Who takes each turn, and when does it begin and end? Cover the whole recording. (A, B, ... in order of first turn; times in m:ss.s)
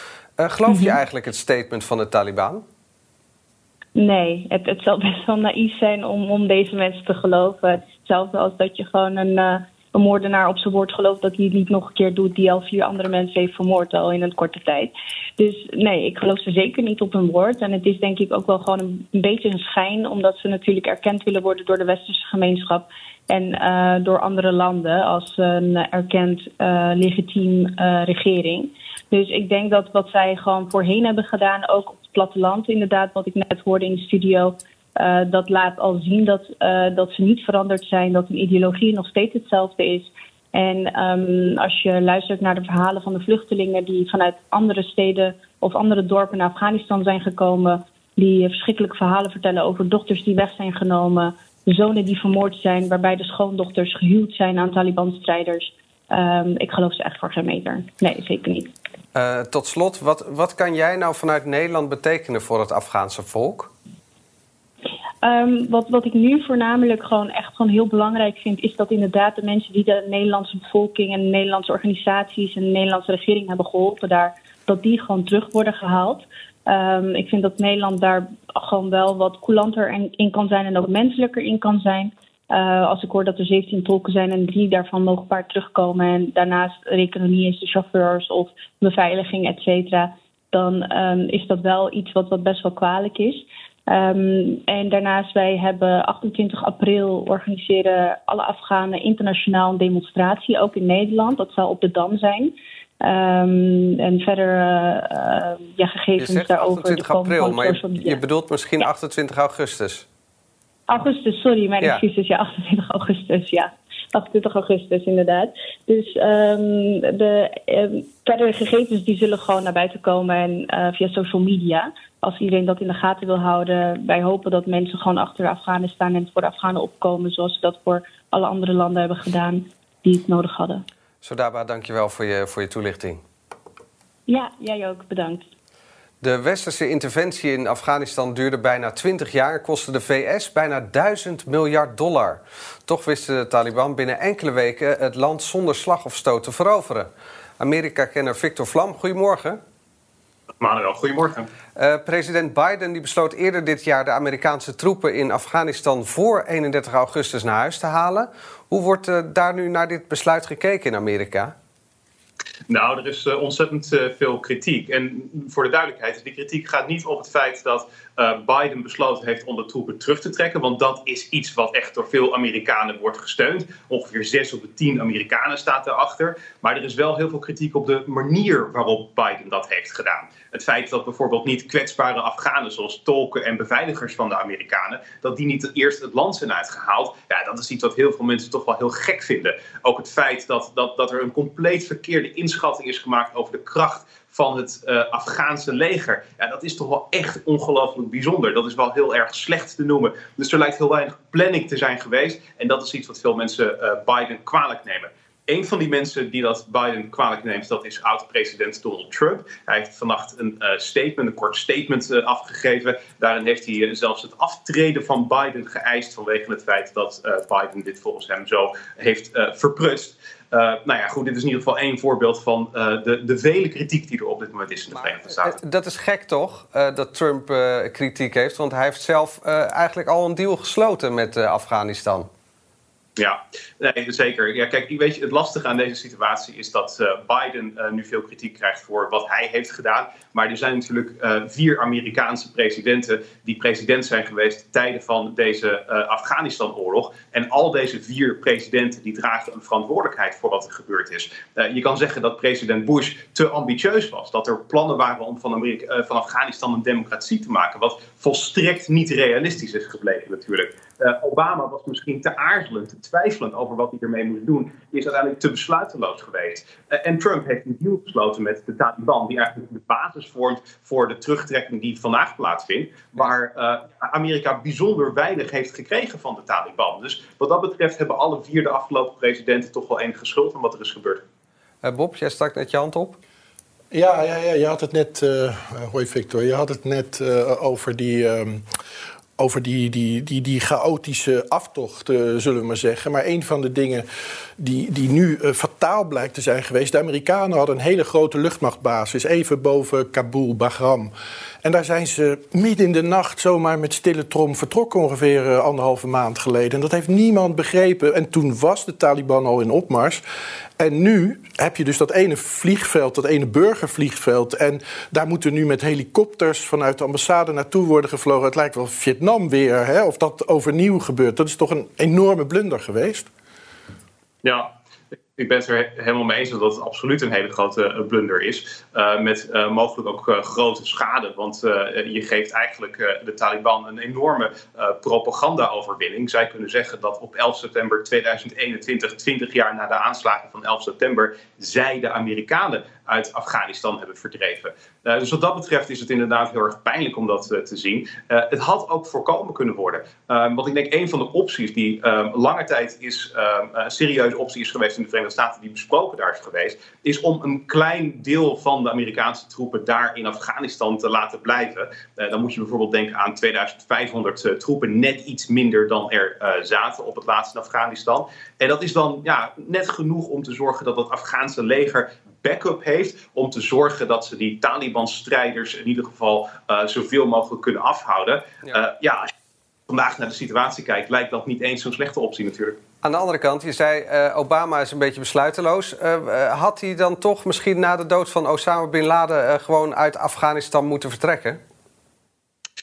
0:00.4-0:02.6 A
0:00.7-0:01.0 B
0:04.0-0:58.7 B
0:59.2-1:03.7 A
1:05.2-1:48.2 B
1:46.2-1:50.1 A
1:50.9-2:10.8 B
2:11.2-2:13.2 A
2:14.3-2:15.4 B
2:16.2-2:29.6 A
2:30.6-2:31.5 C
2:31.8-2:41.5 A
2:42.7-3:45.6 C
3:44.9-3:52.3 A
3:53.2-4:41.2 C
4:41.8-4:43.2 A
4:43.9-4:48.6 D
4:49.4-4:54.1 D
4:54.6-5:01.1 D
5:01.6-5:10.2 D
5:10.8-5:23.3 D
5:24.4-5:24.7 C
5:25.4-6:19.2 C
6:19.9-6:22.8 C
6:23.0-6:31.6 A